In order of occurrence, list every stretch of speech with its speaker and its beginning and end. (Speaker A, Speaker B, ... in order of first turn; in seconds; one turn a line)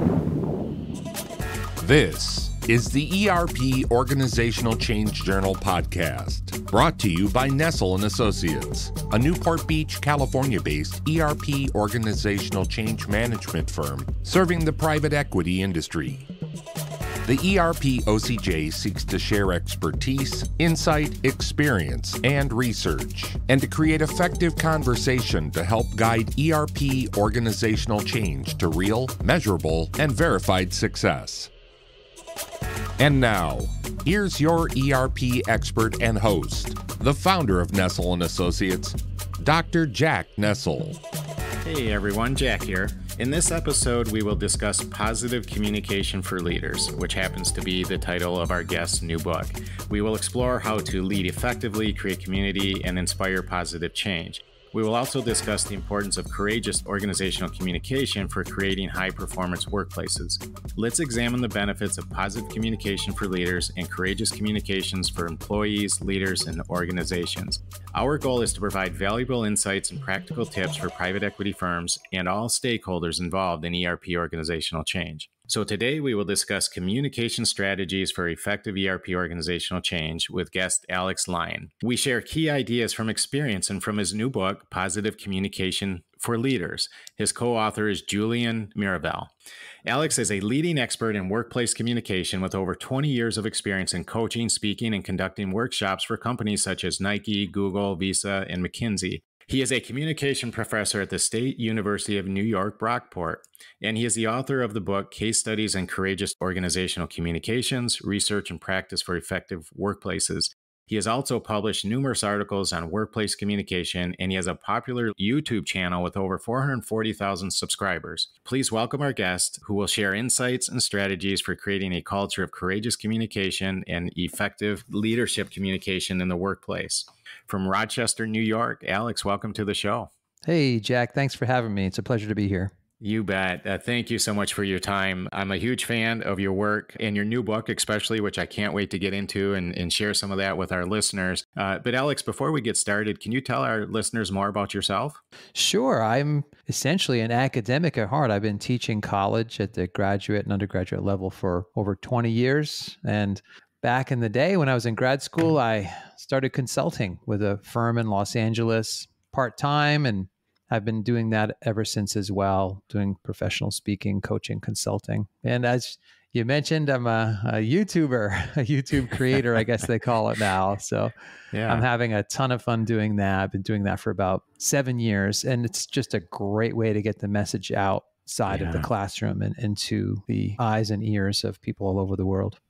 Speaker A: 1.8-16.3
Speaker A: 17.2-31.5
Speaker A: 33.0-41.0
Speaker B: 41.6-89.3
Speaker B: 89.8-130.1
Speaker C: 130.5-132.7
Speaker B: 133.0-145.2
Speaker C: 145.6-171.1
Speaker B: 171.5-171.8
Speaker C: 171.7-182.6
Speaker B: 178.5-178.9